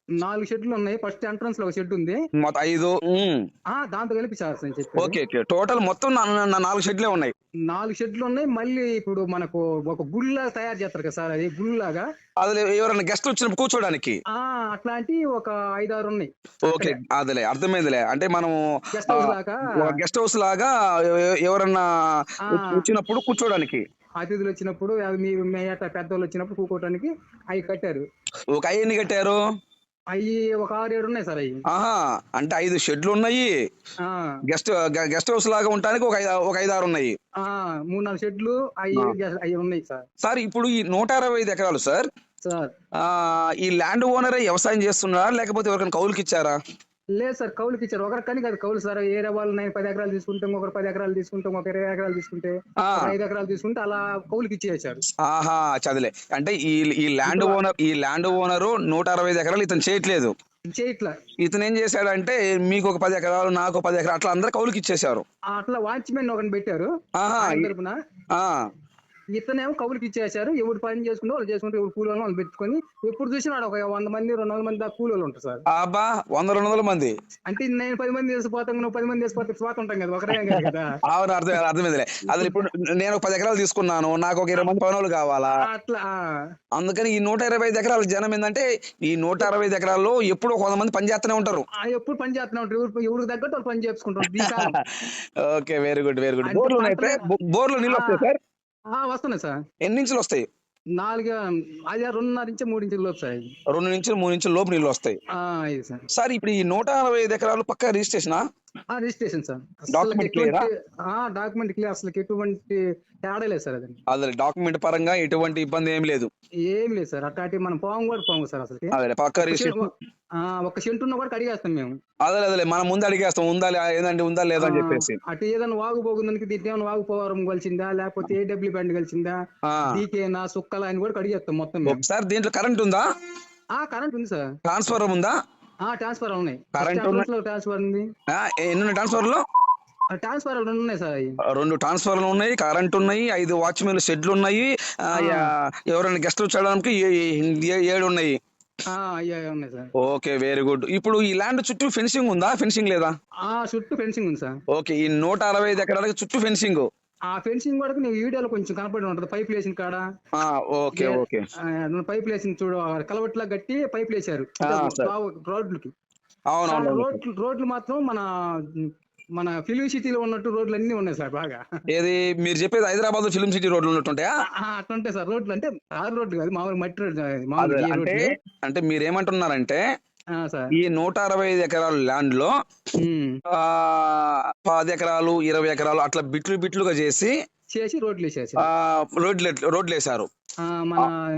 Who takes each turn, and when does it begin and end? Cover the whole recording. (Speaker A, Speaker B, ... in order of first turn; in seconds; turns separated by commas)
Speaker A: 0.2-2.2, Speaker B: 2.4-3.4, Speaker A: 3.7-5.2, Speaker B: 5.0-7.3, Speaker A: 7.7-12.1, Speaker B: 12.4-14.2, Speaker A: 14.3-17.0, Speaker B: 16.6-21.8, Speaker A: 19.0-20.0, Speaker A: 22.5-22.8, Speaker B: 22.5-23.8, Speaker A: 24.2-28.0, Speaker B: 28.5-29.4, Speaker A: 30.1-31.6, Speaker B: 31.7-33.5, Speaker A: 34.0-34.3, Speaker B: 34.5-37.1, Speaker A: 37.4-40.0, Speaker B: 40.2-42.1, Speaker A: 42.4-42.7, Speaker B: 43.0-46.6, Speaker A: 47.2-55.0, Speaker B: 52.8-53.1, Speaker B: 55.2-60.3, Speaker A: 57.2-57.6, Speaker A: 60.7-61.1, Speaker B: 61.4-65.2, Speaker A: 65.5-68.0, Speaker B: 67.2-67.7, Speaker A: 69.3-75.6, Speaker B: 75.7-77.1, Speaker A: 77.5-80.9, Speaker B: 80.4-85.5, Speaker A: 85.6-86.2, Speaker B: 86.8-91.7, Speaker A: 91.8-94.8, Speaker B: 94.2-98.4, Speaker A: 96.4-97.2, Speaker A: 97.8-98.3, Speaker A: 98.9-99.6, Speaker B: 99.8-100.4, Speaker A: 101.0-103.5, Speaker B: 103.7-105.2, Speaker A: 105.3-106.0, Speaker B: 106.1-108.4, Speaker A: 108.9-114.0, Speaker B: 109.9-110.7, Speaker B: 114.1-116.3, Speaker A: 116.7-118.9, Speaker B: 118.9-119.8, Speaker A: 119.4-122.0, Speaker B: 122.2-125.2, Speaker A: 124.6-132.0, Speaker B: 129.6-130.0, Speaker B: 131.8-133.0, Speaker A: 133.8-134.5, Speaker B: 134.7-135.3, Speaker A: 135.8-138.1, Speaker B: 136.8-137.2, Speaker B: 138.3-139.4, Speaker A: 140.2-141.4, Speaker B: 141.4-148.4, Speaker A: 145.2-145.5, Speaker A: 148.9-149.9, Speaker B: 150.0-153.1, Speaker A: 153.4-154.6, Speaker B: 154.7-156.8, Speaker A: 157.3-160.0, Speaker B: 160.3-161.4, Speaker A: 160.9-165.9, Speaker B: 164.6-165.1, Speaker B: 166.5-167.2, Speaker A: 166.7-171.6, Speaker B: 171.9-174.3, Speaker A: 174.6-178.2, Speaker B: 177.6-179.8, Speaker A: 180.3-180.7, Speaker B: 180.7-182.5, Speaker A: 183.0-183.4, Speaker B: 183.5-187.3, Speaker A: 187.7-188.7, Speaker B: 188.6-190.3, Speaker A: 190.6-191.2